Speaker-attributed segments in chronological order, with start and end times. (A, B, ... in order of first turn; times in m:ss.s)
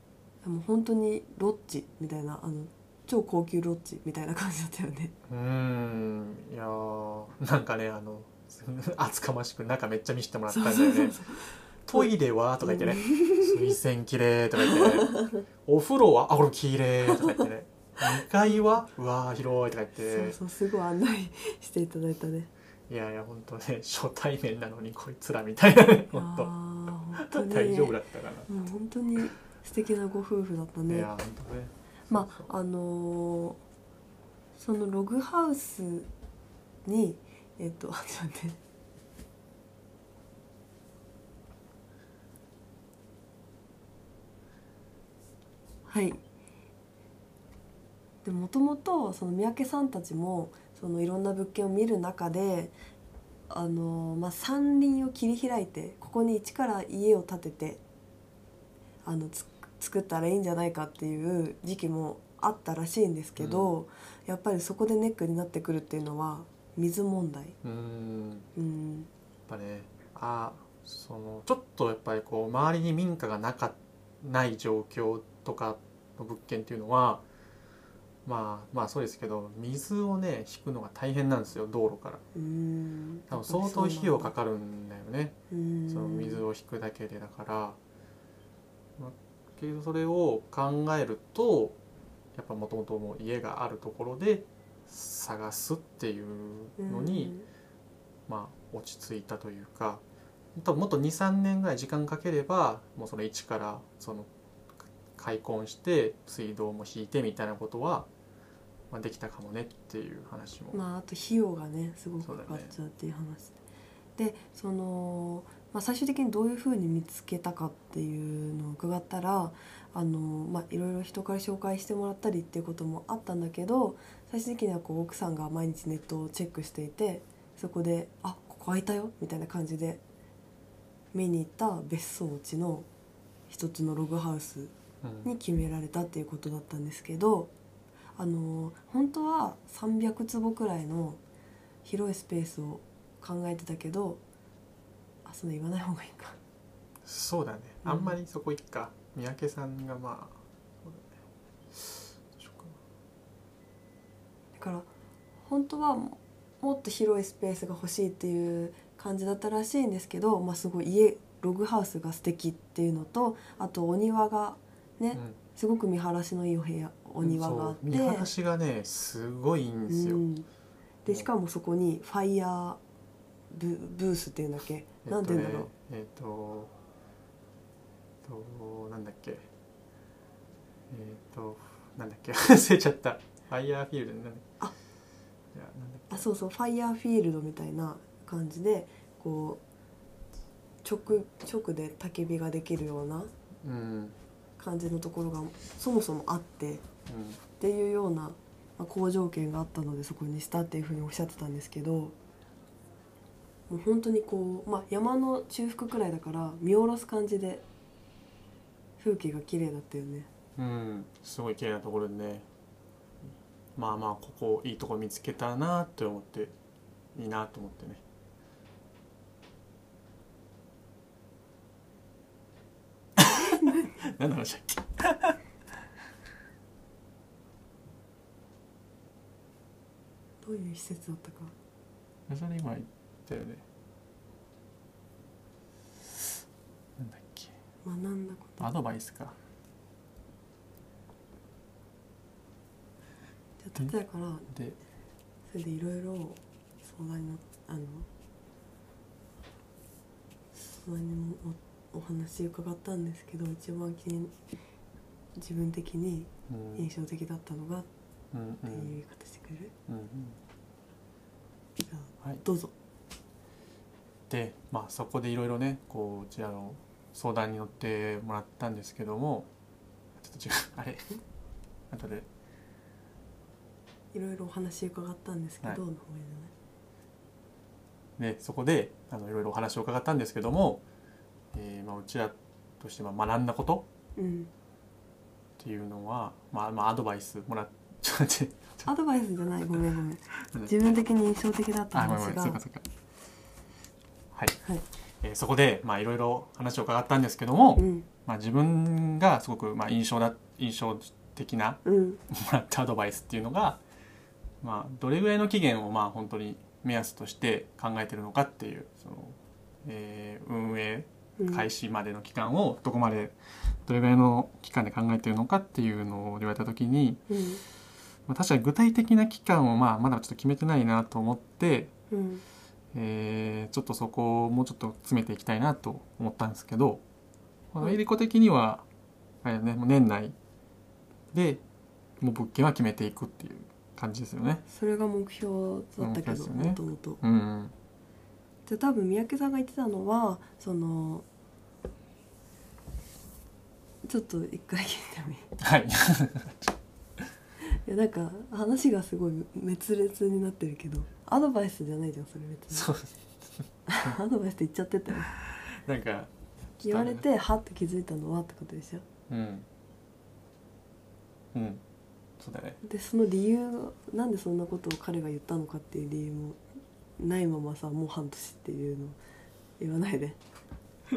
0:00.4-0:05.1 A
0:05.3-0:11.2 B
0:10.5-0:12.1 A
0:11.8-0:20.4 B
0:12.6-0:13.6 A
0:14.6-0:15.4 A
0:20.1-0:22.5 A
0:22.9-0:26.5 B
0:26.1-0:31.1 A
0:27.2-0:28.5 B
0:30.9-0:32.5 B
0:32.1-0:33.6 A
0:34.6-0:36.1 A
0:36.8-0:38.6 A
0:45.9-0:46.2 A
0:48.2-0:52.8 A
0:53.5-0:57.8 A
0:59.0-1:07.6 A
1:03.4-1:03.8 B
1:07.6-1:08.5 B
1:08.6-1:09.1 A
1:09.5-1:17.2 B
1:18.2-1:22.2 B
1:22.3-1:24.3 A
1:23.3-1:25.4 B
1:25.5-1:26.4 A
1:25.9-1:27.8 B
1:29.0-1:31.8 B
1:32.4-1:37.3 B
1:36.8-1:37.5 A
1:38.3-1:40.0 B
1:40.6-1:44.3 B
1:45.2-1:48.1 B
1:48.9-1:50.8 B
1:50.7-1:53.6 A
1:52.2-1:52.7 B
1:54.2-2:10.0 A
2:11.1-2:12.9 A
2:13.5-2:14.7 A
2:15.0-2:15.3 B
2:15.2-2:17.5 A
2:18.2-2:21.2 A
2:21.8-2:24.2 A
2:25.2-2:26.4 A
2:27.0-2:31.1 B
2:27.8-2:28.2 A
2:31.7-2:32.8 B
2:34.6-2:34.9 A
2:35.4-2:48.3 A
2:47.2-2:50.2 B
2:49.9-2:50.5 A
2:51.0-2:52.8 A
2:53.5-2:55.7 A
2:55.0-2:56.7 B
2:58.2-2:59.5 B
3:00.9-3:04.5 B
3:05.5-3:06.3 B
3:06.1-3:09.6 A
3:10.8-3:13.3 A
3:13.6-3:14.2 B
3:14.6-3:16.8 A
3:17.1-3:17.4 B
3:17.6-3:22.2 A
3:23.7-3:27.6 A
3:29.0-3:30.3 A
3:30.6-3:32.4 B
3:33.8-3:36.5 B
3:37.2-3:38.0 B
3:43.2-3:45.4 B
3:43.6-3:43.9 A
3:50.4-3:51.5 A
3:52.3-3:53.6 B
3:57.0-3:57.5 B
3:57.8-3:58.7 A
3:58.6-3:59.4 B
4:03.6-4:04.5 A
4:04.5-4:04.8 B
4:05.5-4:08.1 A
4:10.6-4:14.3 A
4:15.4-4:17.9 A
4:16.5-4:16.9 B
4:18.3-4:19.0 B
4:18.7-4:19.7 A
4:19.9-4:20.4 B
4:21.9-4:22.7 A
4:24.3-4:29.5 B
4:30.2-4:31.1 B
4:31.9-4:32.3 B
4:34.1-4:36.5 A
4:38.2-4:40.8 B
4:41.5-4:43.9 B
4:44.2-4:44.5 A
4:45.6-4:48.9 B
4:48.8-4:52.6 A
4:51.9-4:52.8 B
4:54.3-4:54.6 B
4:55.2-5:03.8 B
4:57.8-4:58.1 A
5:01.8-5:02.2 A
5:04.6-5:17.3 B
5:11.4-5:11.7 A
5:17.3-5:17.6 A
5:18.3-5:21.9 B
5:22.1-5:22.4 A
5:22.9-5:27.0 B
5:27.7-5:28.8 B
5:29.4-5:30.3 B
5:31.3-5:31.6 B
5:32.2-5:34.6 B
5:34.7-5:37.2 A
5:36.0-5:37.7 B
5:38.7-5:41.3 A
5:44.0-5:45.5 A
5:45.6-5:46.8 B
5:47.7-5:52.9 A
5:52.7-5:54.1 B
5:53.9-5:55.3 A
5:55.3-5:57.3 B
5:56.8-5:59.0 A
5:59.3-5:59.7 B
6:01.5-6:01.8 B
6:02.4-6:02.8 B
6:02.8-6:06.6 A
6:07.2-6:09.2 A
6:09.8-6:10.4 A